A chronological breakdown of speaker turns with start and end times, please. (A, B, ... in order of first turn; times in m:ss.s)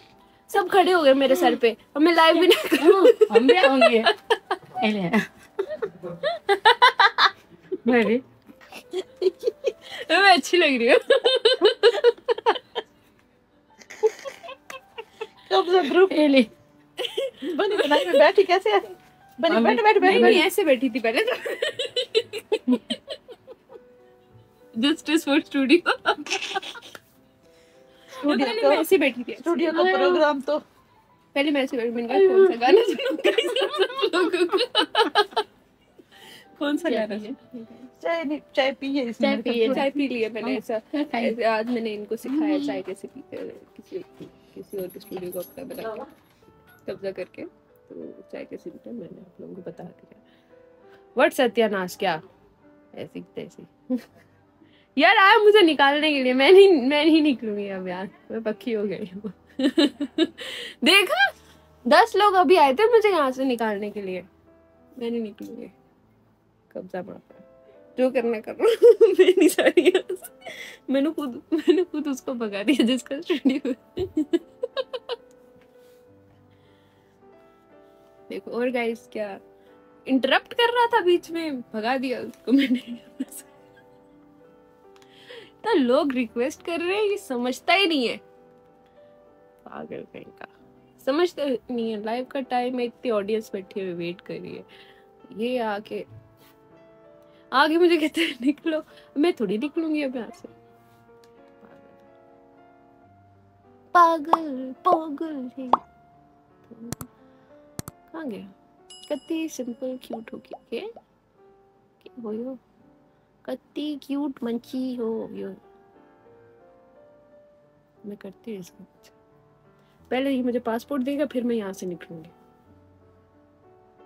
0:00.5-0:04.0 A
0:02.8-0:04.1 B
0:04.8-0:05.2 B
0:06.2-0:07.3 A
0:07.8-0:08.2 B
0:09.0-0:12.5 A
0:15.5-0:16.2 C
0:15.8-0:16.5 B
0:17.1-0:18.2 A
0:17.4-0:18.8 C
0:19.4-0:20.4 C
0:19.5-0:20.4 B
0:19.7-0:23.0 A
0:24.7-0:26.8 A
0:28.2-0:30.6 C
0:28.2-0:30.2 A
0:29.8-0:30.1 B
0:31.3-0:35.4 A
0:36.6-0:37.9 A
0:38.0-0:39.8 C
0:39.2-0:39.9 B
0:39.6-0:46.0 A
0:46.8-0:50.2 A
0:51.2-0:52.2 A
0:52.9-0:53.7 A
0:55.0-1:01.3 A
1:01.9-1:04.3 A
1:05.0-1:05.7 A
1:06.7-1:07.4 A
1:08.0-1:15.0 A
1:18.3-1:19.4 A
1:20.1-1:23.5 A
1:25.6-1:28.2 A
1:29.6-1:30.5 A
1:31.0-1:34.6 A
1:35.3-1:36.0 A
1:37.5-1:40.5 A
1:41.6-1:42.0 A
1:43.9-1:45.8 A
1:46.7-1:47.0 A
1:48.1-1:48.5 A
1:49.1-1:50.9 A
1:52.0-1:52.6 A
1:53.4-1:55.6 A
1:58.0-1:59.1 A
2:00.1-2:02.3 A